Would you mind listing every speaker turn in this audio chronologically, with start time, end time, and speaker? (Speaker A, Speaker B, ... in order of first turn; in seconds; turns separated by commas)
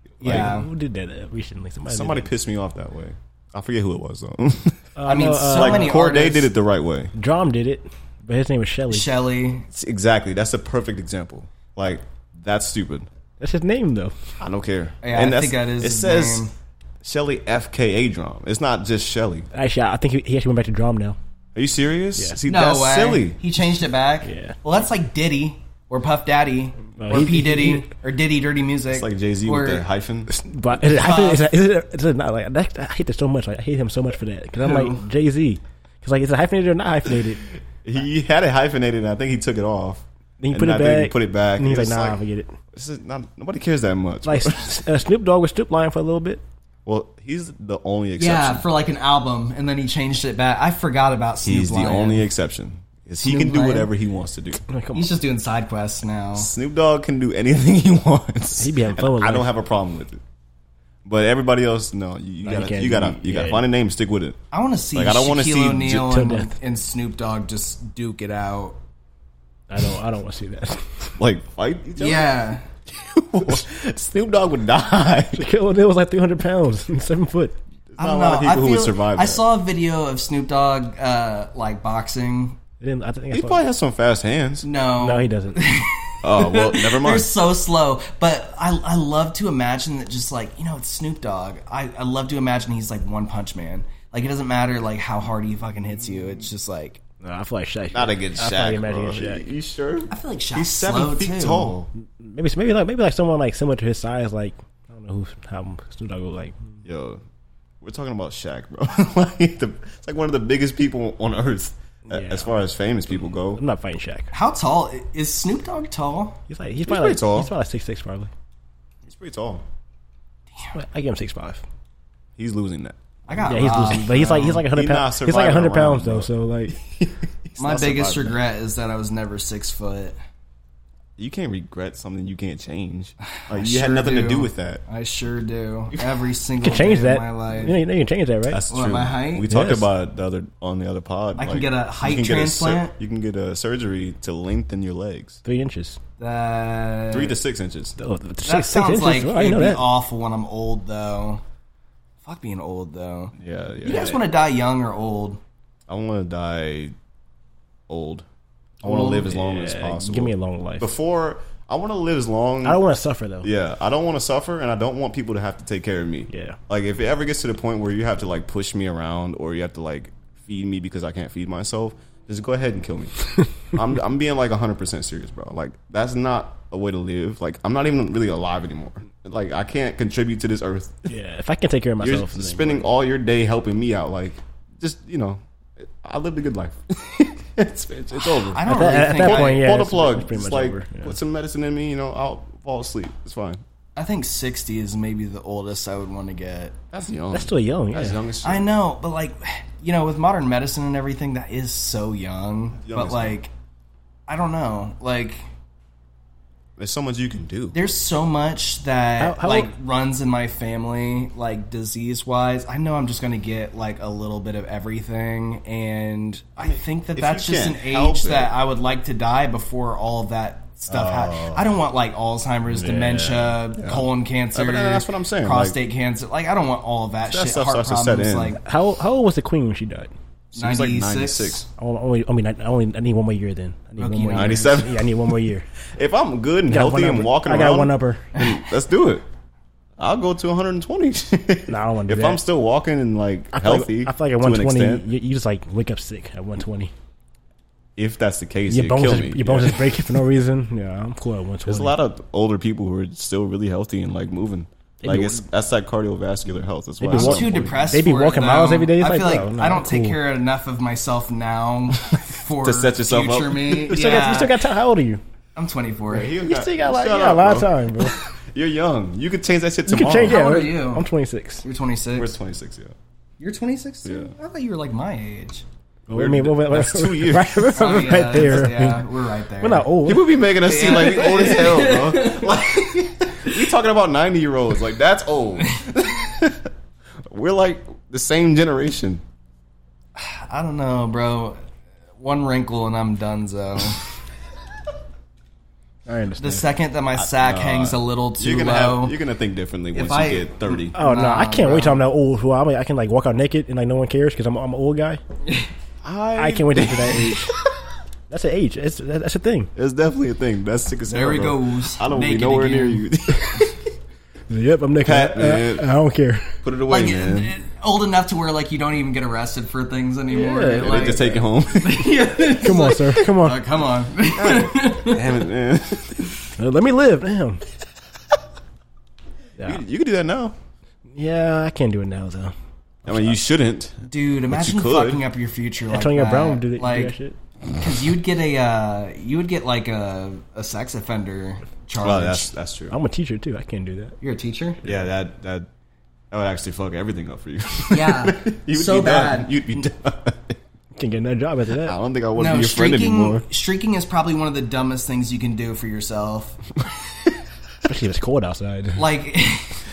Speaker A: 0.2-0.6, Speaker B: 0.2-0.7, Speaker C: 0.2-2.3, Speaker A: 1.9-4.8, Speaker C: 5.0-6.0, Speaker B: 5.0-6.5, Speaker A: 5.5-7.1, Speaker C: 7.2-9.1, Speaker B: 8.9-9.7, Speaker A: 9.7-13.1, Speaker C: 13.4-14.2, Speaker A: 14.4-16.5, Speaker B: 15.0-16.5, Speaker A: 17.0-19.5, Speaker C: 19.5-21.2, Speaker A: 21.5-23.4, Speaker C: 22.1-22.4, Speaker B: 22.5-29.8, Speaker C: 24.2-24.6, Speaker C: 27.0-27.9, Speaker A: 27.1-27.4, Speaker A: 28.9-30.3, Speaker C: 30.3-37.5, Speaker B: 30.8-31.5, Speaker B: 34.6-35.0, Speaker A: 37.8-42.2, Speaker C: 40.4-42.5, Speaker A: 42.7-44.8, Speaker C: 44.2-46.4, Speaker A: 46.8-48.7, Speaker B: 48.2-52.2, Speaker A: 51.4-54.6, Speaker B: 53.2-53.9, Speaker C: 54.7-55.1, Speaker B: 54.9-56.5, Speaker A: 56.4-60.2, Speaker C: 58.6-59.5, Speaker A: 61.0-64.4, Speaker C: 62.4-63.6, Speaker B: 64.5-68.8, Speaker A: 64.9-66.1, Speaker C: 66.0-66.5, Speaker C: 69.7-71.1, Speaker A: 71.2-72.3, Speaker B: 72.0-72.7, Speaker A: 72.9-75.5, Speaker C: 75.3-77.6, Speaker A: 77.9-79.5, Speaker B: 78.0-82.6, Speaker C: 82.8-83.6, Speaker A: 83.3-84.7, Speaker B: 84.6-97.0, Speaker C: 85.0-85.8, Speaker A: 86.2-87.3, Speaker C: 97.2-99.5, Speaker A: 97.9-101.9, Speaker B: 100.1-101.7, Speaker C: 102.0-106.8, Speaker A: 106.8-107.2, Speaker A: 107.8-113.6, Speaker C: 112.1-112.5, Speaker C: 113.5-114.3, Speaker B: 114.3-116.4, Speaker C: 116.5-118.3, Speaker A: 116.8-117.5, Speaker A: 119.0-119.6, Speaker C: 120.7-121.6, Speaker A: 122.3-123.0, Speaker B: 123.3-124.7, Speaker C: 123.4-126.8, Speaker A: 124.6-128.4, Speaker B: 127.6-130.2, Speaker A: 131.2-134.8, Speaker B: 133.3-137.8, Speaker C: 136.6-138.6, Speaker A: 138.5-145.4, Speaker B: 138.7-139.5, Speaker C: 139.5-139.9, Speaker B: 141.4-142.9, Speaker C: 145.4-146.0, Speaker B: 146.2-147.3, Speaker A: 147.1-147.9, Speaker C: 148.0-149.8, Speaker B: 148.4-151.4, Speaker B: 152.2-155.4, Speaker A: 153.4-154.2, Speaker C: 153.9-154.1, Speaker A: 155.9-156.9, Speaker A: 157.9-158.2, Speaker A: 158.8-162.8, Speaker C: 158.8-160.9, Speaker C: 162.6-163.5, Speaker A: 163.4-181.1, Speaker C: 166.3-166.6, Speaker C: 181.1-182.9, Speaker A: 182.0-193.6, Speaker B: 188.4-189.7, Speaker C: 188.7-191.1, Speaker B: 193.9-196.8, Speaker A: 196.9-198.7, Speaker C: 197.3-198.2, Speaker B: 198.4-203.5, Speaker A: 202.8-203.4, Speaker B: 204.3-205.4, Speaker A: 206.8-207.8, Speaker B: 207.7-228.6, Speaker C: 209.2-209.7, Speaker A: 216.6-218.6, Speaker A: 220.9-221.7, Speaker A: 222.8-225.8, Speaker C: 222.8-223.3, Speaker A: 227.3-228.6, Speaker C: 228.6-230.1, Speaker A: 230.5-231.7, Speaker B: 230.5-231.6, Speaker C: 231.8-235.7, Speaker B: 234.0-234.8, Speaker A: 234.3-235.3, Speaker A: 235.9-239.2, Speaker C: 236.7-238.3, Speaker A: 240.0-245.1, Speaker C: 241.7-242.4, Speaker C: 243.5-246.9, Speaker A: 247.9-250.1, Speaker C: 248.7-251.9, Speaker A: 251.6-258.0, Speaker C: 255.0-255.4, Speaker C: 257.0-260.2, Speaker B: 257.1-264.6, Speaker A: 262.6-264.4, Speaker C: 263.9-265.2, Speaker B: 265.6-266.3, Speaker A: 266.1-270.4, Speaker C: 266.4-268.1, Speaker C: 269.9-271.6, Speaker B: 270.2-271.1, Speaker B: 271.6-272.3, Speaker A: 272.1-272.9, Speaker B: 273.4-275.6, Speaker A: 274.0-274.3, Speaker C: 276.1-279.1, Speaker A: 276.1-278.2, Speaker B: 277.7-279.9, Speaker C: 279.6-280.4, Speaker A: 280.0-286.7, Speaker B: 280.5-283.0, Speaker A: 287.3-289.2, Speaker B: 290.1-291.6, Speaker B: 292.2-294.0, Speaker C: 296.1-296.6, Speaker B: 296.4-299.1, Speaker A: 297.1-300.9, Speaker B: 299.9-302.0, Speaker C: 300.9-305.2, Speaker A: 306.0-307.4, Speaker C: 306.4-307.5, Speaker C: 308.3-309.7, Speaker A: 309.8-313.9, Speaker B: 311.1-313.0, Speaker C: 314.5-316.6, Speaker A: 315.0-315.9, Speaker A: 316.6-317.5, Speaker B: 316.9-325.4, Speaker C: 320.3-321.1, Speaker A: 320.8-322.1, Speaker C: 322.6-323.6, Speaker A: 324.3-326.4, Speaker C: 326.6-327.6, Speaker C: 329.6-329.8, Speaker A: 329.6-330.6, Speaker C: 331.1-332.5, Speaker A: 333.0-335.3, Speaker C: 333.1-333.3, Speaker B: 334.0-337.1, Speaker C: 335.9-337.4, Speaker B: 337.8-342.5, Speaker A: 342.0-342.9, Speaker C: 342.9-344.2, Speaker B: 344.2-344.8, Speaker A: 344.8-345.7, Speaker A: 346.3-350.6, Speaker B: 347.9-349.9, Speaker C: 350.9-352.0, Speaker A: 351.8-353.4, Speaker B: 352.4-356.6, Speaker C: 357.8-359.0, Speaker B: 359.0-359.7